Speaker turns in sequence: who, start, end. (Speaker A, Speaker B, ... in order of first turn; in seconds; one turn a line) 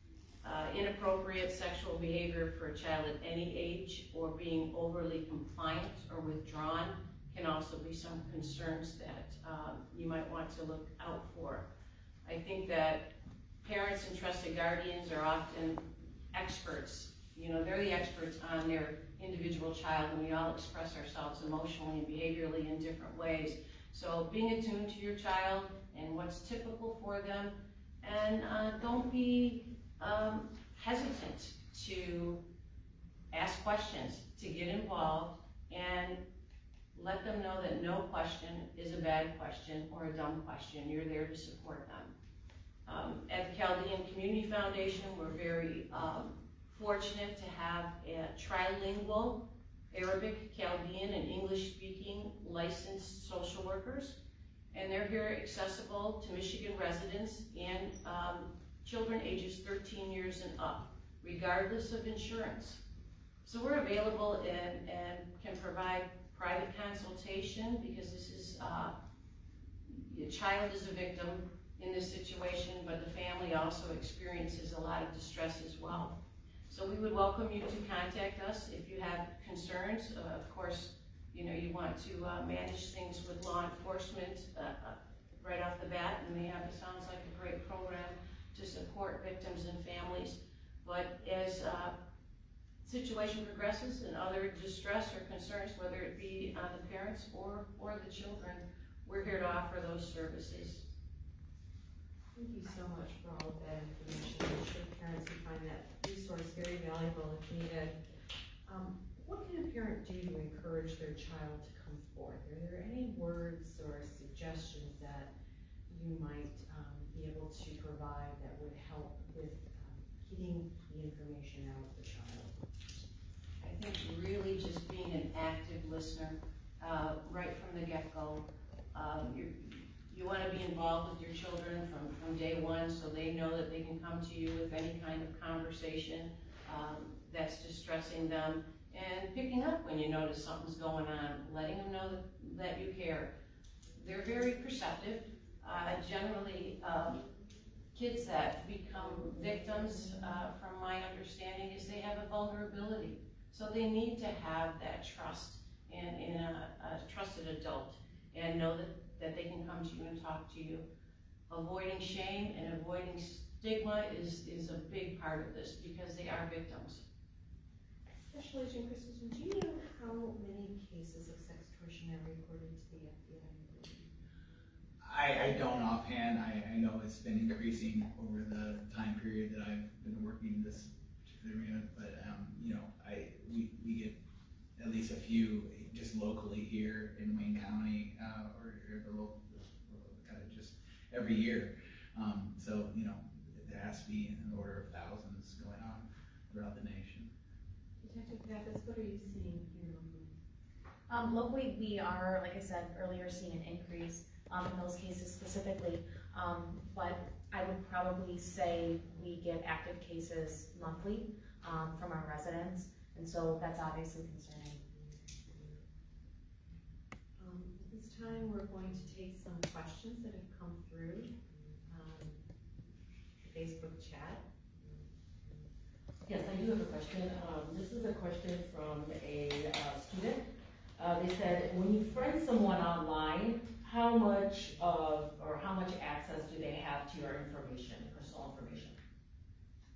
Speaker A: 0.4-11.7
Speaker A: 12.2-32.4
Speaker A: 33.3-36.2
Speaker A: 36.9-42.1
Speaker A: 42.9-54.2
Speaker A: 54.7-62.8
Speaker A: 63.4-69.0
Speaker A: 69.9-76.2
Speaker A: 76.7-92.0
Speaker A: 92.8-100.8
Speaker B: 102.3-108.0
Speaker B: 108.7-115.3
Speaker B: 115.9-122.6
Speaker A: 123.6-143.3
Speaker A: 143.9-147.2
Speaker A: 147.9-160.8
Speaker A: 161.5-167.0
Speaker B: 168.3-174.1
Speaker C: 175.0-184.2
Speaker C: 184.8-197.3
Speaker B: 198.0-200.3
Speaker D: 201.1-214.8
Speaker B: 217.4-221.3
Speaker B: 221.9-222.4
Speaker B: 223.4-224.4
Speaker E: 226.2-230.5
Speaker E: 231.0-239.0